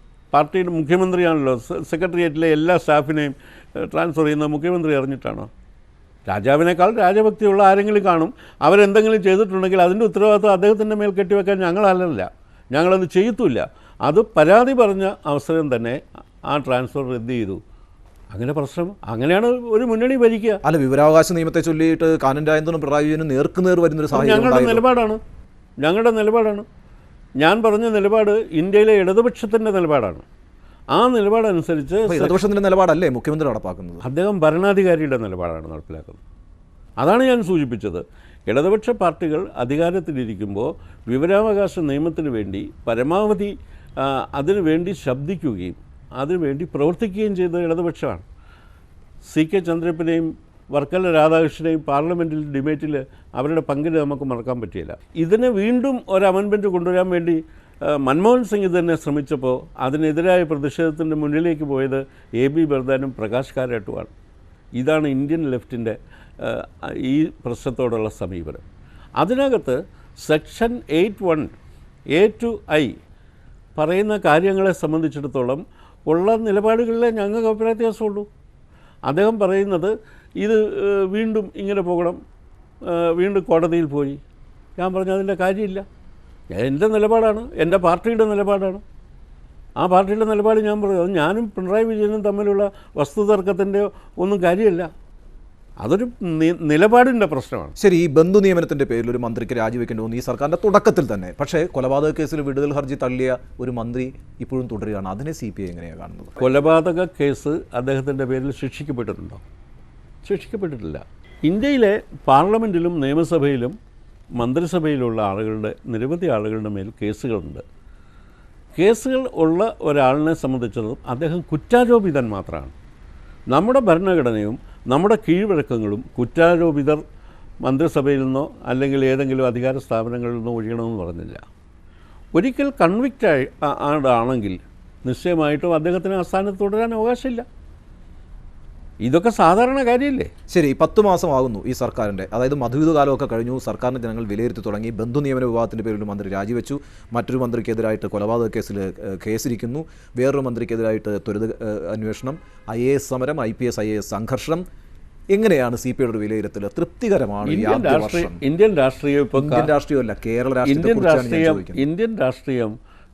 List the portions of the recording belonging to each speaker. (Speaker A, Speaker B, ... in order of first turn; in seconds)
Speaker A: 0.3-5.5, 6.3-17.6, 18.3-20.6, 24.1-25.2, 25.8-26.7, 27.4-30.2, 30.9-32.4, 34.0-36.2, 37.0-48.2, 49.2-64.1, 64.8-68.6, 69.2-71.5, 72.1-73.0, 73.8-78.3, 79.1-82.2, 82.9-84.2, 84.8-85.8, 86.5-88.8, 89.8-94.9, 95.8-97.7, 106.4-109.4, 110.2-113.8, 114.4-117.6, 118.8-122.7, 123.5-127.0, 127.6-131.4, 132.4-137.4, 139.0-140.3, 157.4-159.7, 160.7-162.8
Speaker B: 20.6-24.8, 32.1-34.0, 97.8-106.5, 140.5-154.6, 155.3-158.4, 159.4-161.9